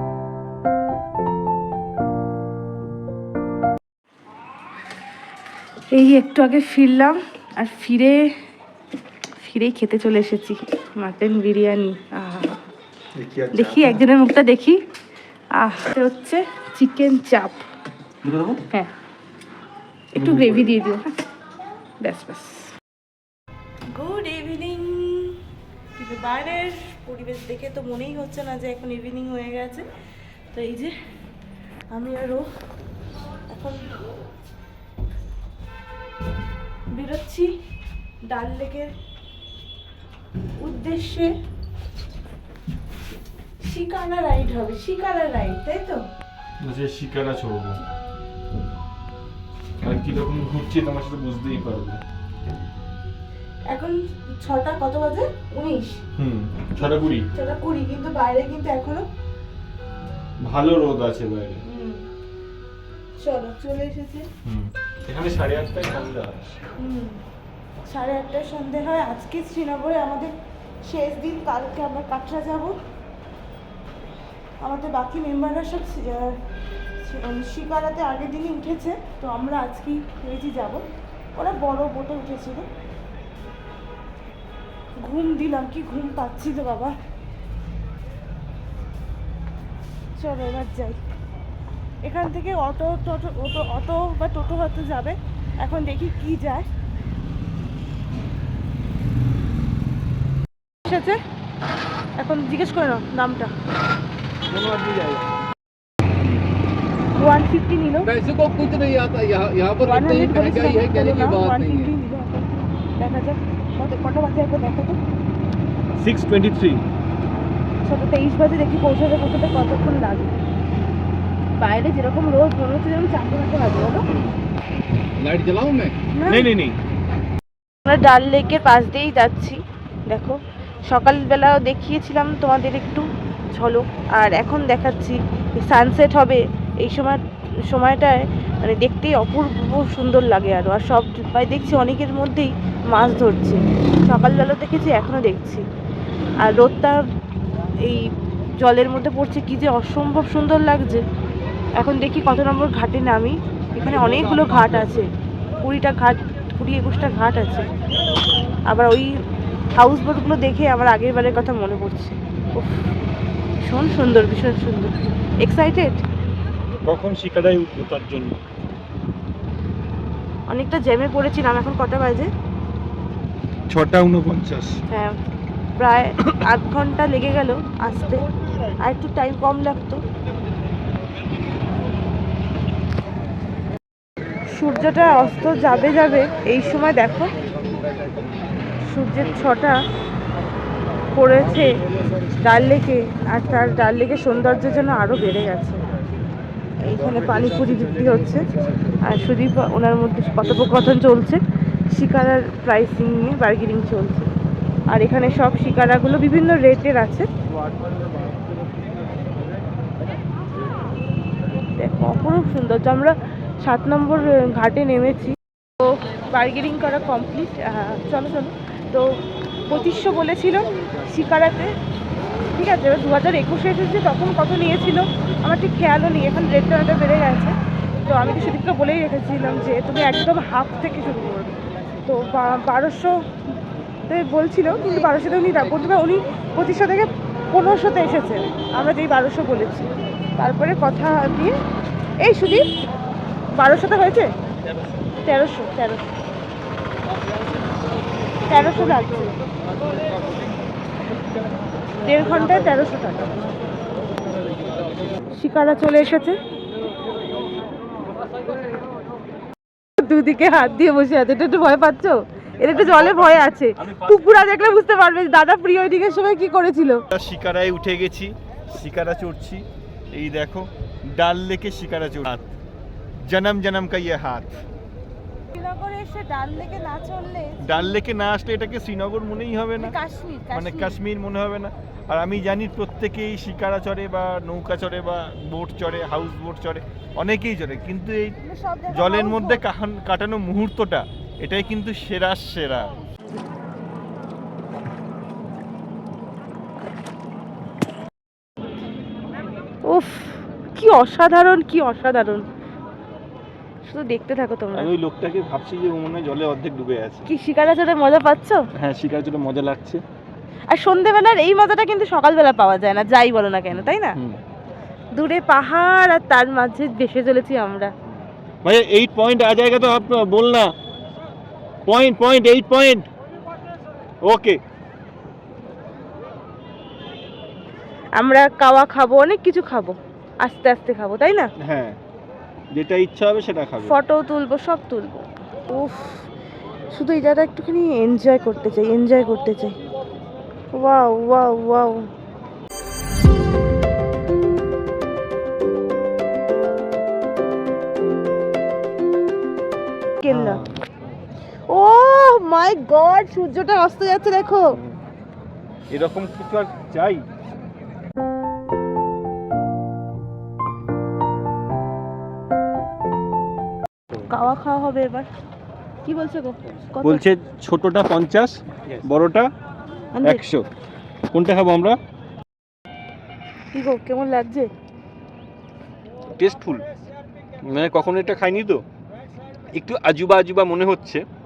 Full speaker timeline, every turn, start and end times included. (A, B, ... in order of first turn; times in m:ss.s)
0:05.9-0:08.3 A
0:09.4-0:12.6 A
0:13.2-0:14.0 B
0:13.5-0:14.8 A
0:15.6-0:17.6 A
0:18.3-0:18.6 B
0:20.1-0:21.0 A
0:20.2-0:20.7 B
0:22.0-0:22.7 A
0:23.9-0:25.4 A
0:26.0-0:29.9 A
0:30.5-0:30.9 A
0:31.9-0:32.4 A
0:33.5-0:33.9 A
0:36.9-0:37.5 A
0:38.3-0:38.9 A
0:40.6-0:41.3 A
0:43.6-0:46.0 A
0:46.6-0:47.8 B
0:49.8-0:52.0 B
0:53.7-0:56.0 A
0:56.2-0:57.3 B
0:57.3-0:59.1 A
1:00.4-1:01.6 B
1:01.7-1:02.0 A
1:03.2-1:04.3 A
1:04.4-1:06.6 B
1:06.8-1:07.2 A
1:07.9-1:10.3 A
1:10.8-1:12.8 A
1:14.6-1:16.4 A
1:17.0-1:20.8 A
1:21.4-1:22.7 A
1:25.0-1:26.9 A
1:30.2-1:31.0 A
1:32.0-1:36.7 A
1:40.8-1:41.2 A
1:42.2-1:43.5 A
1:44.5-1:45.2 B
1:47.2-1:48.1 A
1:48.1-1:51.9 C
1:49.8-1:55.0 A
1:56.0-1:56.9 B
1:57.8-2:00.3 A
2:01.6-2:04.0 A
2:04.1-2:04.3 B
2:05.2-2:06.0 C
2:06.1-2:06.5 A
2:06.3-2:06.8 B
2:07.8-2:13.0 A
2:13.5-2:25.6 A
2:26.4-2:27.0 A
2:28.6-2:31.0 A
2:31.8-2:35.1 A
2:35.6-2:37.7 A
2:38.7-2:39.1 A
2:39.8-2:42.9 A
2:43.6-2:46.0 A
2:46.9-2:48.4 B
2:50.5-2:52.3 A
2:53.7-2:54.8 B
2:54.9-2:55.2 A
2:55.8-2:58.2 A
2:58.8-3:00.0 A
3:04.5-3:07.4 A
3:08.9-3:09.8 A
3:11.1-3:11.7 A
3:12.4-3:15.8 A
3:16.8-3:18.5 A
3:19.0-3:24.3 A
3:24.9-3:27.3 A
3:31.8-3:39.1 A
3:39.7-3:41.7 A
3:42.5-3:47.6 A
3:48.1-3:53.1 A
3:54.1-4:01.6 A
4:02.2-4:02.7 A
4:03.6-4:04.3 A
4:05.2-4:06.1 A
4:08.5-4:09.3 A
4:12.0-4:13.4 A
4:15.3-4:16.4 A
4:20.0-4:27.0 A
4:22.7-4:24.5 B
4:27.1-4:32.5 B
4:33.2-4:34.6 B
4:35.5-4:37.9 A
4:37.6-4:39.9 B
4:39.8-4:41.0 A
4:40.5-4:48.4 B
4:48.4-4:49.6 A
4:48.9-4:52.9 B
4:59.9-5:02.4 A
5:03.8-5:04.9 A
5:04.7-5:07.3 B
5:07.3-5:08.6 A
5:08.8-5:10.0 B
5:10.7-5:14.2 A
5:13.7-5:14.4 B
5:15.1-5:17.9 A
5:18.1-5:20.7 B
5:21.9-5:23.1 B
5:24.2-5:24.6 B
5:28.2-5:31.5 A
5:31.6-5:32.0 B
5:32.7-5:33.9 B
5:33.8-5:36.2 A
5:36.9-5:39.8 A
5:40.7-5:42.0 A
5:50.2-5:50.6 A
5:50.3-5:50.8 B
5:51.7-5:54.8 A
5:54.7-5:55.0 B
5:55.9-5:57.2 B
6:04.3-6:05.3 A
6:06.0-6:07.2 A
6:07.0-6:09.5 B
6:10.1-6:10.4 A
6:10.2-6:10.7 B
6:11.3-6:12.0 B
6:13.7-6:14.7 A
6:16.3-6:16.8 B
6:17.6-6:18.8 B
6:19.8-6:21.2 B